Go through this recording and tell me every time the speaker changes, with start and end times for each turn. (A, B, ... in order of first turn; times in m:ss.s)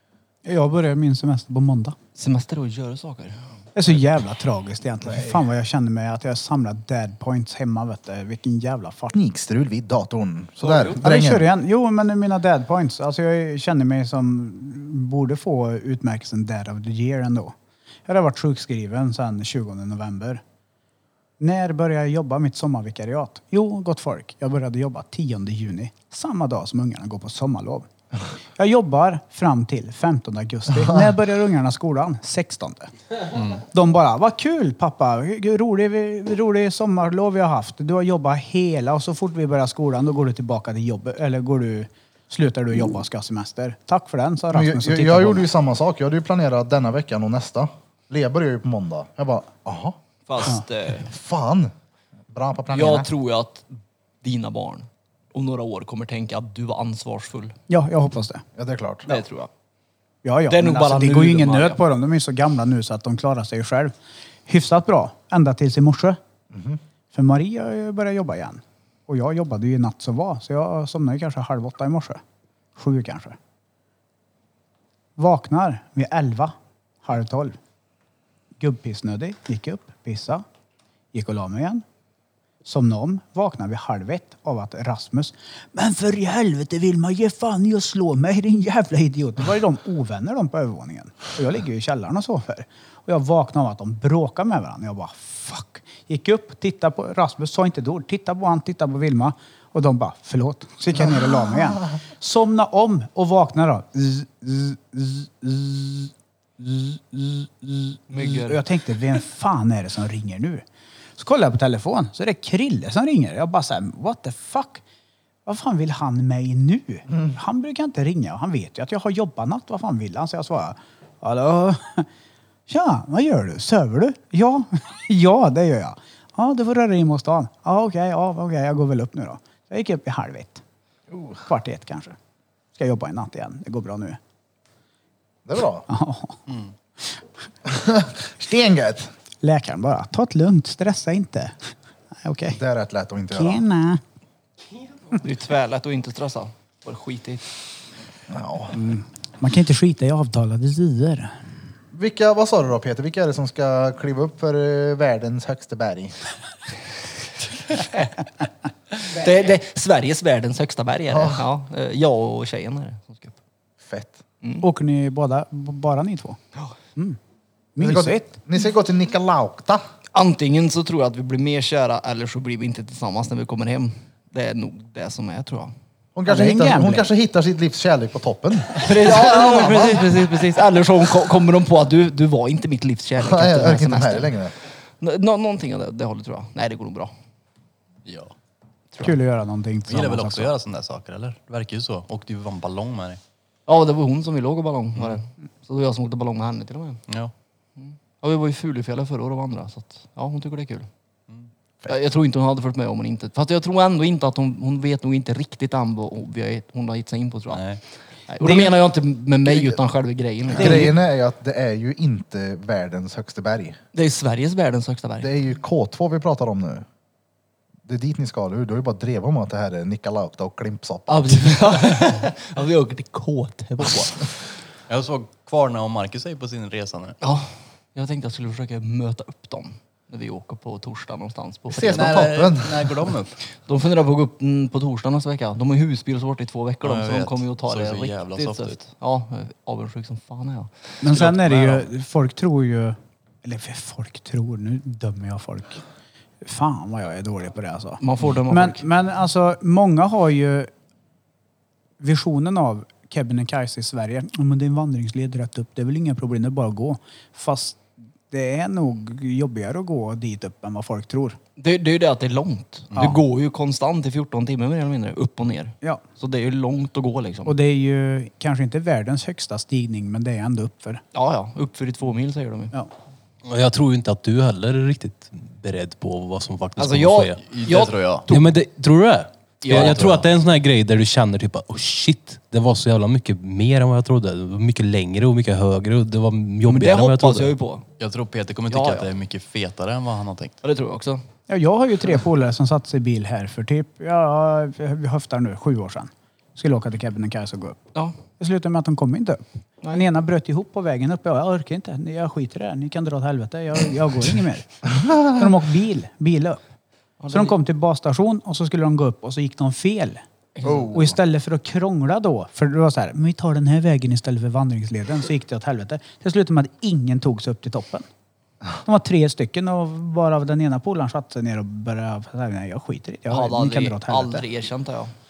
0:00.4-0:02.0 A
0:02.2-0:03.5 B
0:03.7-0:09.2 A
0:05.1-0:05.4 C
0:09.1-0:11.5 C
0:10.6-0:11.0 B
0:11.0-0:17.5 A
0:18.0-0:20.4 A
0:21.4-0:27.9 A
0:28.6-0:32.9 A
0:33.5-0:45.5 A
0:44.5-0:50.0 C
0:50.3-0:51.1 B
0:51.1-0:51.7 C
0:52.3-0:53.1 C
0:52.7-0:53.7 B
0:54.2-0:57.6 B
0:57.7-0:58.4 A
0:58.6-0:59.1 C
0:59.1-0:59.5 B
1:00.2-1:03.9 A
1:00.5-1:01.8 B
1:04.5-1:06.2 A
1:06.5-1:06.8 C
1:07.1-1:12.2 A
1:12.8-1:13.4 A
1:15.2-1:17.6 A
1:18.6-1:20.4 A
1:21.1-1:21.8 A
1:22.6-1:50.6 A
1:48.1-1:48.6 B
1:51.2-1:54.8 A
1:55.4-2:02.1 A
2:02.7-2:10.6 A
2:11.1-2:11.4 C
2:11.4-2:12.2 A
2:12.7-2:14.2 A
2:15.4-2:15.9 C
2:15.9-2:16.4 A
2:17.6-2:19.1 C
2:19.4-2:21.7 A
2:22.2-2:22.6 A
2:22.6-2:23.6 C
2:23.3-2:24.0 A
2:25.1-2:27.4 B
2:28.3-2:28.8 C
2:28.7-2:31.4 A
2:31.9-2:36.2 C
2:39.0-2:43.4 B
2:41.1-2:41.4 C
2:43.8-2:44.2 C
2:44.6-2:46.4 A
2:47.8-2:48.3 A
2:47.8-2:49.8 C
2:50.1-2:55.7 B
2:56.1-3:00.1 C
2:56.2-2:57.0 A
2:58.8-3:04.3 B
3:03.2-3:04.5 C
3:05.0-3:07.1 B
3:08.0-3:08.3 D
3:09.0-3:10.5 A
3:09.9-3:13.2 D
3:13.7-3:17.0 B
3:17.8-3:20.9 B
3:21.9-3:27.7 B
3:27.5-3:27.8 D
3:28.3-3:30.9 B
3:28.4-3:28.8 A
3:30.5-3:33.8 C
3:30.6-3:30.9 A
3:33.9-3:35.3 B
3:35.2-3:36.8 C
3:37.8-3:41.6 C
3:41.1-3:44.3 B
3:44.9-3:47.2 D
3:47.2-3:52.2 B
3:51.7-3:53.1 C
3:51.8-3:53.4 D
3:53.6-4:00.7 B
3:56.8-3:58.8 D
4:01.0-4:05.8 A
4:01.1-4:01.9 D
4:06.4-4:10.7 A
4:08.0-4:08.8 B
4:12.0-4:21.4 A
4:21.6-4:27.5 B
4:22.9-4:23.2 A
4:27.4-4:31.0 A
4:31.1-4:32.7 B
4:33.5-4:37.4 E
4:36.8-4:38.5 B
4:37.4-4:38.3 D
4:38.3-4:47.5 E
4:39.6-4:40.0 B
4:39.7-4:40.3 D
4:46.7-4:47.9 B
4:48.0-4:50.6 D
4:48.7-4:49.1 B
4:50.6-4:51.2 B
4:51.5-4:57.8 A
4:58.4-5:06.6 A
5:07.2-5:07.6 B
5:07.3-5:10.2 A
5:10.6-5:11.1 B
5:10.9-5:18.0 A
5:18.8-5:24.4 A
5:23.3-5:25.1 B